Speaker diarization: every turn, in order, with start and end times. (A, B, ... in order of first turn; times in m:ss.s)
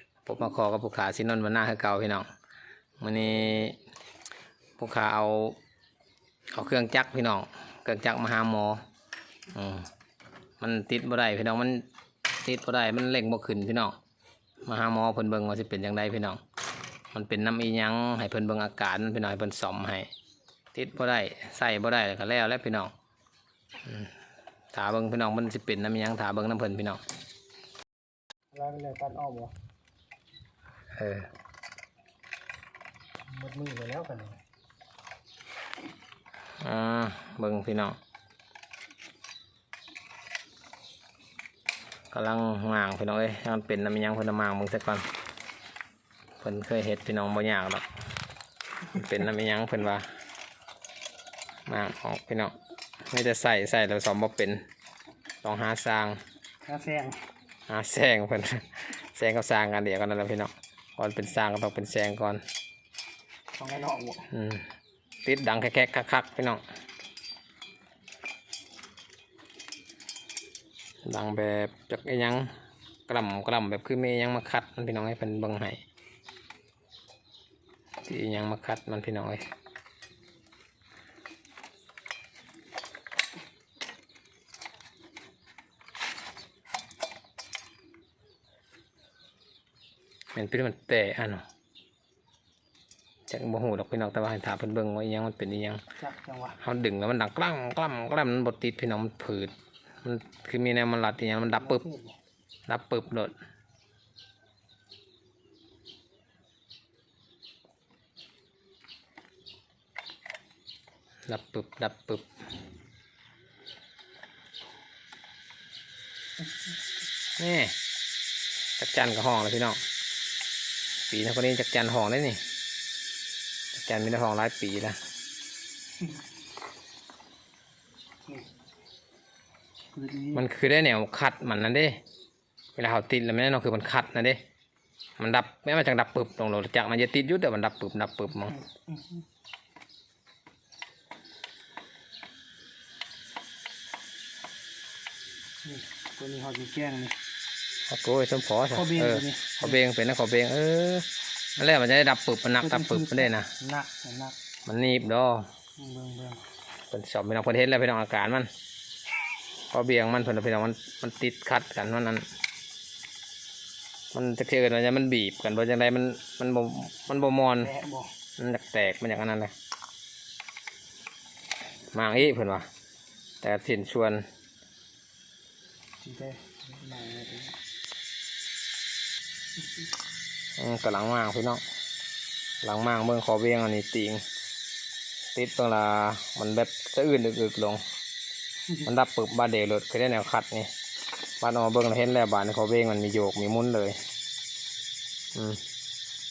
0:00.2-0:02.2 A
0:03.0-0:03.8 A
0:04.8-0:05.6 A
0:06.5-0:08.8 A
0:09.5-0:09.9 A
0:10.6-0:11.9 A
0:12.4-0:14.0 A
0:14.6-0:16.4 A
0:17.1-0:20.1 A
0:20.7-0:22.9 A
0:23.8-0:24.1 A
0:24.7-0:27.0 A
0:28.5-0:29.5 B
0:30.9-0:31.3 A
0:33.3-0:34.4 B
0:36.6-0:38.0 A
0:42.1-0:45.0 A
0:46.4-0:47.9 A
0:48.9-0:50.0 A
0:51.7-0:52.5 A
0:53.1-0:54.6 A
0:55.4-0:56.2 A
0:56.7-0:57.2 B
0:57.7-1:02.4 A
1:03.5-1:04.3 B
1:04.3-1:04.7 A
1:05.2-1:06.6 A
1:11.0-1:12.5 A
1:13.1-1:15.8 A
1:18.0-1:19.5 A
1:30.3-1:31.4 A
1:33.3-1:35.8 A
1:36.0-1:36.6 B
1:36.6-1:41.8 A
1:41.6-1:42.2 B
1:42.7-1:43.3 A
1:51.3-1:52.2 A
1:57.4-1:57.7 A
1:58.8-1:59.8 A
2:01.1-2:02.4 A
2:03.7-2:05.0 A
2:09.9-2:10.4 B
2:10.3-2:12.0 A
2:12.8-2:14.4 A
2:15.2-2:18.6 A
2:18.6-2:19.2 B
2:25.6-2:27.2 B
2:27.9-2:33.5 A
2:28.7-2:29.8 B
2:32.6-2:34.4 B
2:34.7-2:35.5 A
2:35.8-2:36.4 B
2:36.9-2:38.5 A
2:39.7-2:42.2 A
2:44.1-2:47.7 A
2:47.6-2:48.1 B
2:48.4-2:49.5 A
2:51.9-2:52.7 A
2:53.4-2:54.2 A
2:56.0-2:57.6 B
3:00.6-3:01.6 A
3:02.6-3:04.2 A
3:05.3-3:07.8 A
3:08.8-3:10.7 A
3:11.4-3:14.0 A
3:15.3-3:15.6 A